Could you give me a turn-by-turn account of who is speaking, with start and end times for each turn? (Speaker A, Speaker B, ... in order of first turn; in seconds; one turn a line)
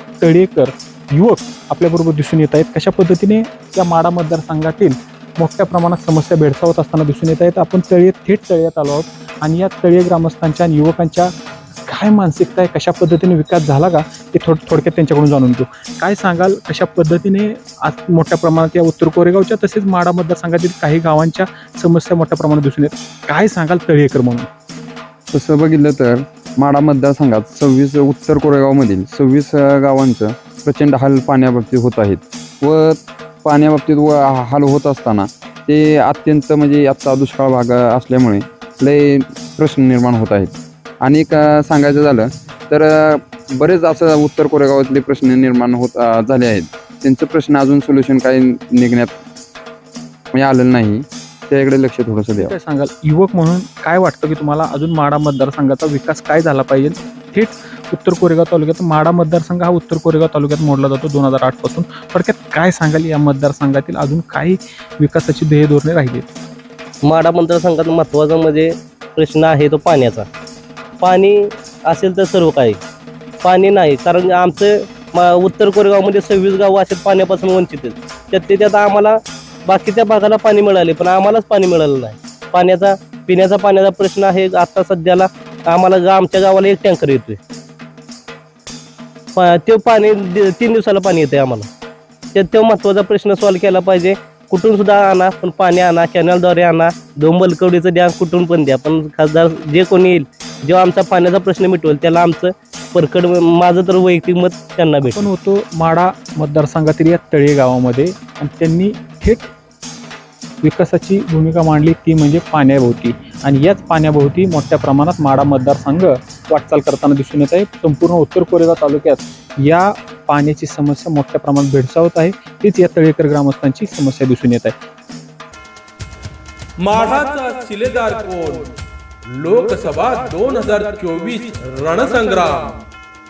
Speaker A: 0.2-11.3
Speaker A: 11.9-24.5
Speaker B: 25.3-49.1
Speaker B: 50.3-52.5
Speaker A: 52.4-66.3
Speaker C: 67.0-70.2
Speaker C: 71.0-72.8
Speaker C: 73.4-87.4
Speaker C: 89.3-91.7
Speaker C: 92.3-105.3
Speaker A: 105.0-109.5
Speaker A: 110.6-124.7
Speaker D: 126.8-128.7
Speaker D: 129.3-132.7